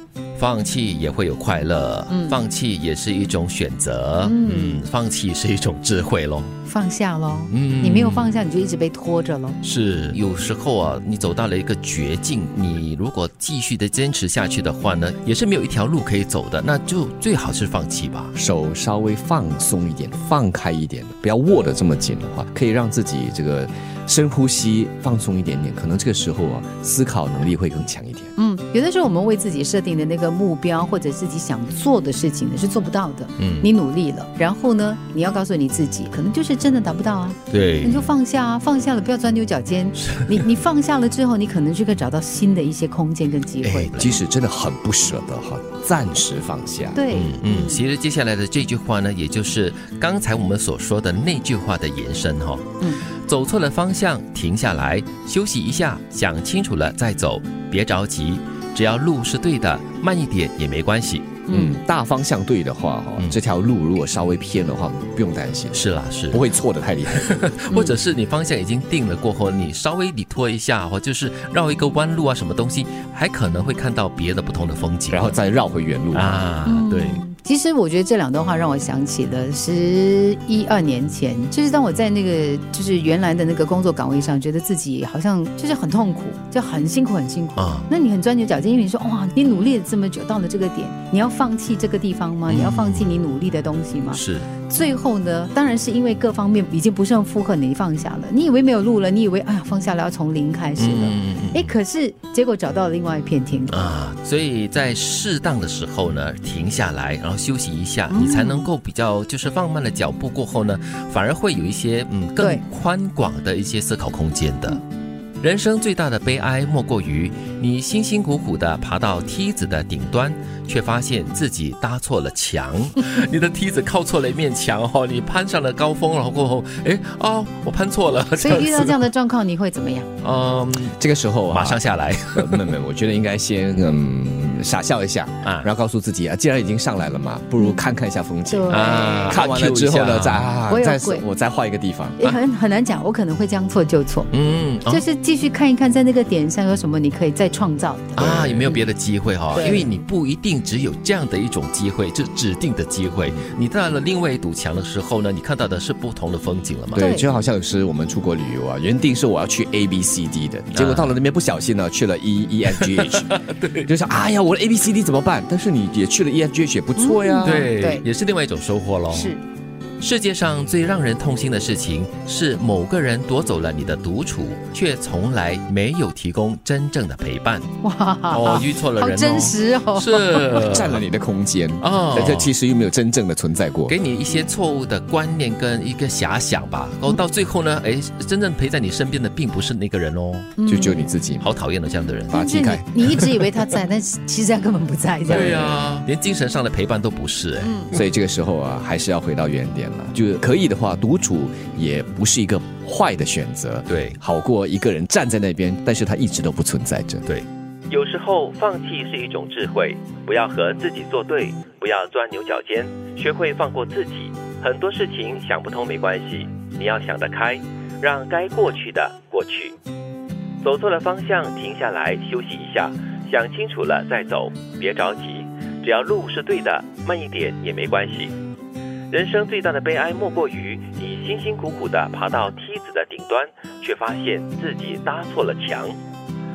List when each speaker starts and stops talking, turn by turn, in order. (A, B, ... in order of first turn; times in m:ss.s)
0:00.4-0:06.5 A
0:02.1-0:02.4 B
0:04.2-0:04.8 B
0:06.7-0:09.6 B
0:07.5-0:08.3 A
0:09.6-0:18.3 A
0:18.3-0:28.3 C
0:28.4-0:43.9 B
0:33.4-0:33.7 A
0:37.5-0:38.1 A
0:40.1-0:40.4 A
0:43.6-0:44.2 A
0:44.0-0:47.0 C
0:46.9-0:47.8 B
0:47.1-1:01.4 A
1:01.5-1:01.8 B
1:01.5-1:07.5 C
1:05.7-1:06.5 A
1:07.1-1:15.4 A
1:07.7-1:08.0 B
1:15.1-1:16.4 C
1:16.1-1:17.2 A
1:16.7-1:43.9 B
1:27.6-1:27.9 A
1:32.5-1:33.2 A
1:34.1-1:34.5 A
1:40.8-1:41.8 A
1:43.7-1:54.8 A
1:48.1-1:48.7 B
1:55.4-2:09.0 A
2:08.4-2:10.1 B
2:10.2-2:11.0 A
2:11.0-2:22.2 C
2:11.5-2:12.7 A
2:18.5-2:19.4 B
2:18.7-2:20.5 A
2:20.7-2:21.2 B
2:22.2-2:24.3 B
2:24.3-2:25.0 A
2:24.9-2:28.8 B
2:28.2-2:37.1 A
2:28.2-2:28.7 C
2:29.5-2:29.9 B
2:36.9-2:47.7 C
2:36.9-2:37.2 B
2:40.7-2:41.1 A
2:42.7-2:43.9 A
2:47.0-2:48.0 B
2:47.4-2:49.4 A
2:49.1-2:49.4 B
2:50.0-2:57.7 A
2:57.8-3:00.6 B
2:58.3-3:01.0 A
3:00.5-3:04.0 C
3:01.8-3:02.5 A
3:03.9-3:10.6 A
3:10.6-3:11.1 B
3:10.7-3:11.5 C
3:11.4-3:12.5 A
3:12.3-3:13.5 C
3:12.3-3:15.8 B
3:15.3-3:18.0 A
3:15.3-3:15.6 C
3:17.6-3:17.9 B
3:17.9-3:27.2 C
3:23.9-3:24.2 A
3:27.2-3:39.7 A
3:40.6-3:48.3 A
3:49.1-3:56.0 A